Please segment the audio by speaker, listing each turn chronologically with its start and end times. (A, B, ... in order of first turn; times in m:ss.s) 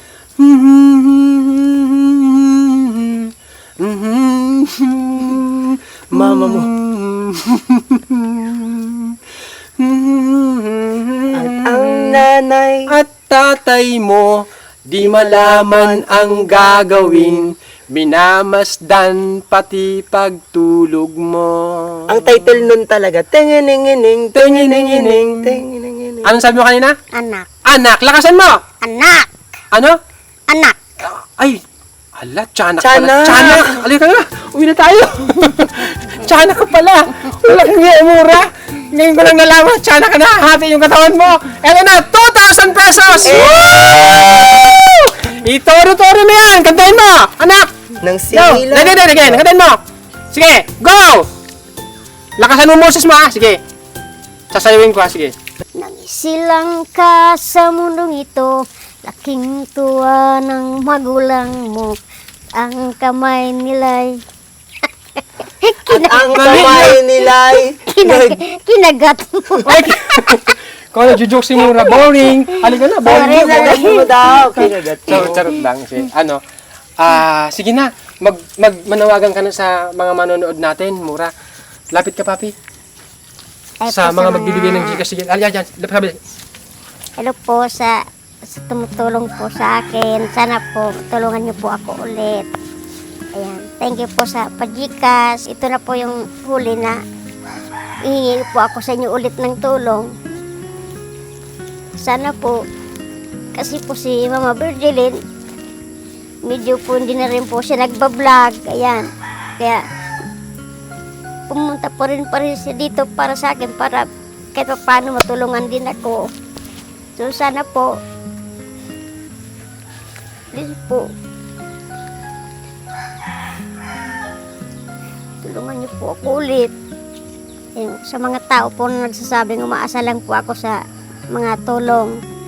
0:00.4-0:09.2 A
0:06.1-0:06.7 B
0:09.8-0:12.2 A
0:11.3-0:12.9 B
0:12.9-0:22.4 A
0:15.0-0:17.4 B
0:22.1-0:26.3 B
0:24.4-0:25.6 A
0:26.2-0:27.0 A
0:27.1-0:27.5 C
0:27.7-0:28.6 A
0:28.8-0:29.3 C
0:29.7-0:30.0 A
0:30.5-0:30.9 C
0:31.0-0:31.6 A
0:32.2-0:47.7 A
0:32.8-0:33.8 B
0:43.2-0:44.3 B
0:48.0-0:49.4 B
0:48.3-0:49.8 A
0:50.3-0:51.3 A
0:52.4-0:53.6 A
0:54.5-0:55.3 A
0:55.8-1:02.0 C
1:02.6-1:04.2 C
1:05.2-1:07.0 C
1:05.9-1:08.4 B
1:06.4-1:07.0 A
1:07.8-1:10.5 C
1:09.6-1:14.0 A
1:11.8-1:14.7 C
1:13.0-1:15.5 B
1:14.6-1:16.4 A
1:17.0-1:21.3 A
1:21.9-1:22.5 A
1:23.8-1:25.0 C
1:23.9-1:26.2 A
1:27.2-1:32.5 C
1:33.4-1:37.0 C
1:38.0-1:40.1 C
1:42.0-1:42.6 C
1:43.6-1:45.2 C
1:46.5-1:49.8 C
1:51.5-1:56.3 C
1:57.2-1:58.0 C
2:00.5-2:01.1 C
2:05.4-2:06.7 C
2:07.8-2:10.8 C
2:11.3-2:12.1 C